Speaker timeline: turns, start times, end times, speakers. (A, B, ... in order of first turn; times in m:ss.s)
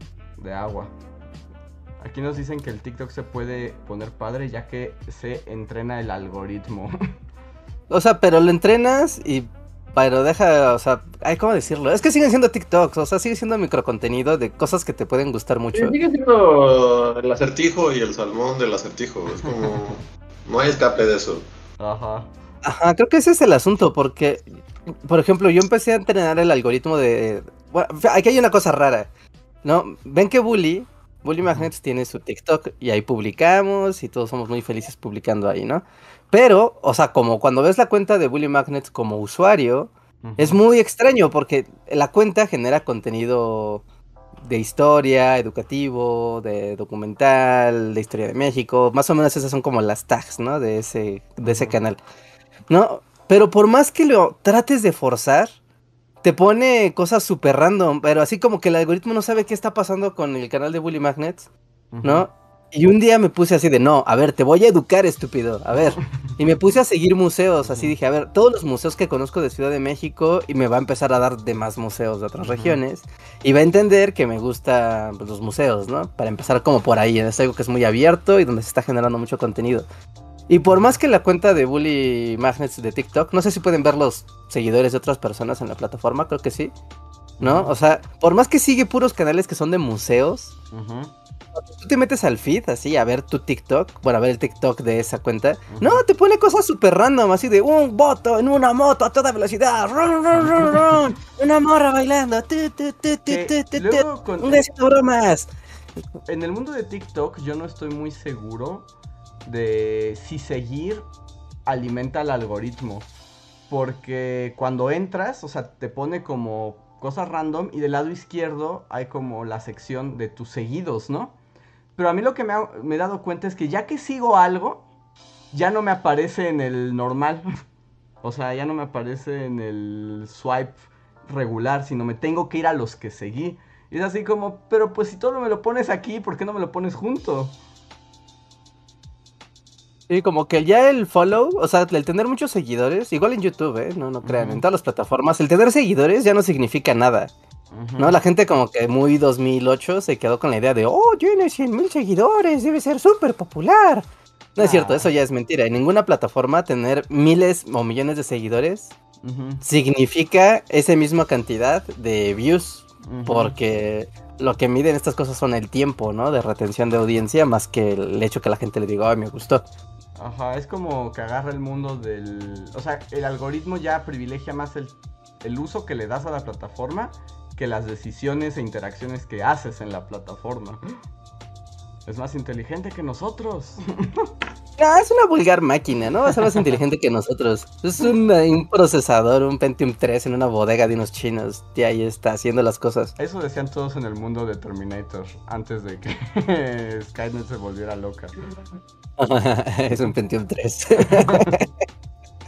0:00.4-0:00.9 A
0:02.0-0:07.0 A
0:07.9-0:16.0 B
0:15.7-0:21.4 C
0:21.8-0:22.3 A
0:22.6-0:24.4 B
0:25.1-0:29.1 B
0:29.6-0:43.8 B
0:40.2-0:40.6 A
0:44.4-0:52.0 B
0:51.4-0:51.8 A
0:52.7-0:55.6 B
0:56.2-1:01.5 B
1:01.9-1:02.3 A
1:02.0-1:19.9 B
1:07.6-1:07.9 A
1:12.4-1:12.8 A
1:20.5-1:26.7 B
1:20.7-1:20.9 A
1:27.4-1:27.7 A
1:27.4-1:30.5 B
1:30.7-1:31.1 A
1:31.7-1:45.5 B
1:35.7-1:36.0 A
1:40.4-1:41.1 A
1:43.3-1:44.6 A
1:46.3-1:48.9 A
1:49.4-1:51.1 A
1:51.7-1:53.1 A
1:53.7-2:01.4 A
2:02.0-2:04.8 A
2:05.5-2:07.5 A
2:08.2-2:17.6 A
2:20.1-2:27.3 B
2:24.2-2:24.6 A
2:27.7-2:28.2 A
2:28.0-2:34.0 B
2:34.6-2:38.9 B
2:34.6-2:35.1 A
2:39.2-2:39.6 A
2:39.6-2:49.6 B
2:43.0-2:43.6 A
2:50.2-3:00.8 A
3:02.1-3:04.3 A
3:04.8-3:13.1 B
3:13.2-3:18.4 A
3:19.2-3:21.7 B
3:21.0-3:21.6 A